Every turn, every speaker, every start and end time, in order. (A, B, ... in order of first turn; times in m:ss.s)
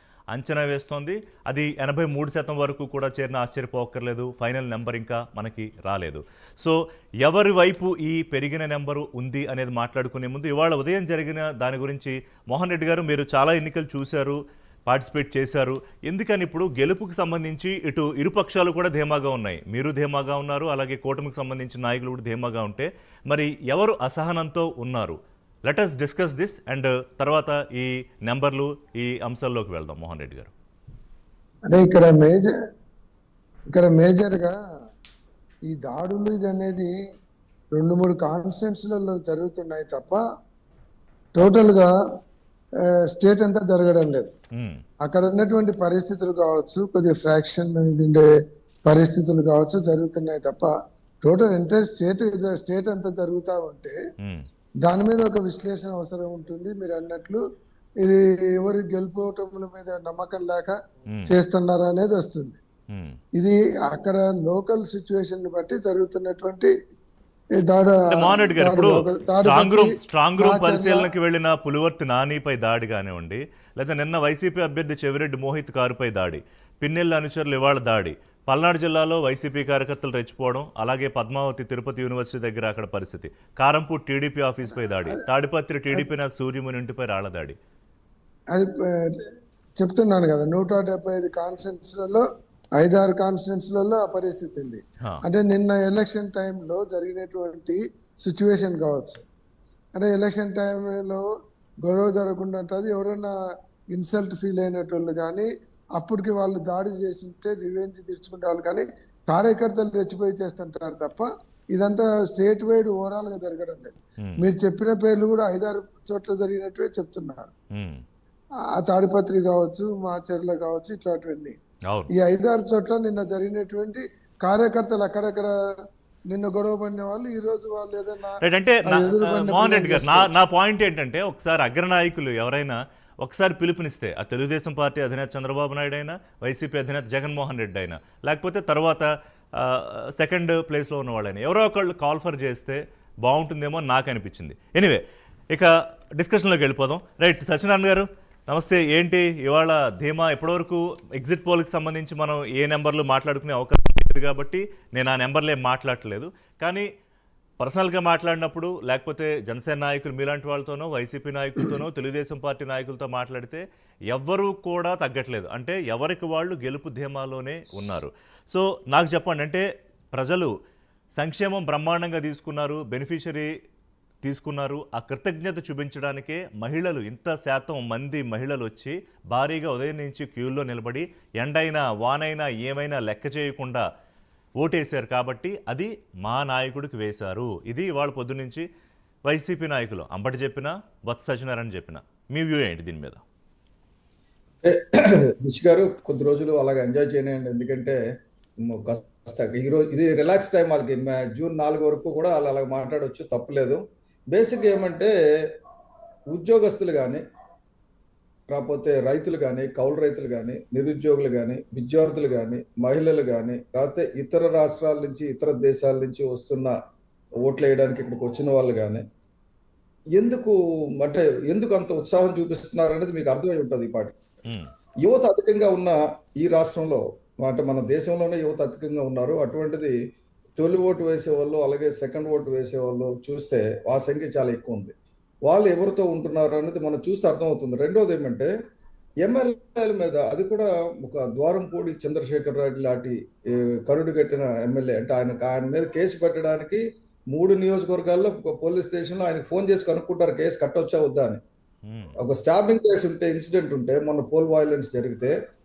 0:00.3-0:30.5 A
0:31.7-0:32.5 B
0:33.7-0:34.6 B
0:35.7-0:36.9 B
0:37.7-0:40.2 B
0:41.3-0:41.9 B
0:42.8-0:44.3 B
0:44.5-0:44.8 A
0:45.0-0:48.3 B
0:48.8-0:50.7 B
0:51.2-0:54.0 B
0:54.2-0:54.5 A
0:54.8-0:57.4 B
0:58.0-1:00.7 B
1:01.2-1:02.6 B
1:02.9-1:03.2 A
1:03.4-1:06.7 B
1:07.6-1:11.1 B
1:08.1-1:27.6 A
1:28.5-1:29.2 B
1:29.8-1:32.2 B
1:32.8-1:39.2 B
1:39.9-1:41.2 B
1:41.8-1:43.3 B
1:43.9-1:57.5 B
1:57.7-1:58.0 A
1:58.8-2:01.6 B
2:02.1-2:05.5 B
2:06.3-2:10.3 B
2:08.4-2:36.9 A
2:37.6-2:50.5 A
2:51.2-2:53.5 A
2:54.2-3:03.8 A
3:04.6-3:08.7 A
3:09.3-3:13.2 A
3:14.6-3:18.0 C
3:18.6-3:23.8 C
3:24.3-3:25.1 C
3:26.3-3:27.2 C
3:28.5-3:36.7 C
3:37.4-3:39.0 C
3:40.2-3:44.2 C
3:45.0-3:49.9 C
3:50.6-3:54.9 C
3:55.4-3:58.5 C
3:59.2-4:11.4 C
4:11.8-4:12.2 A
4:12.2-4:15.3 C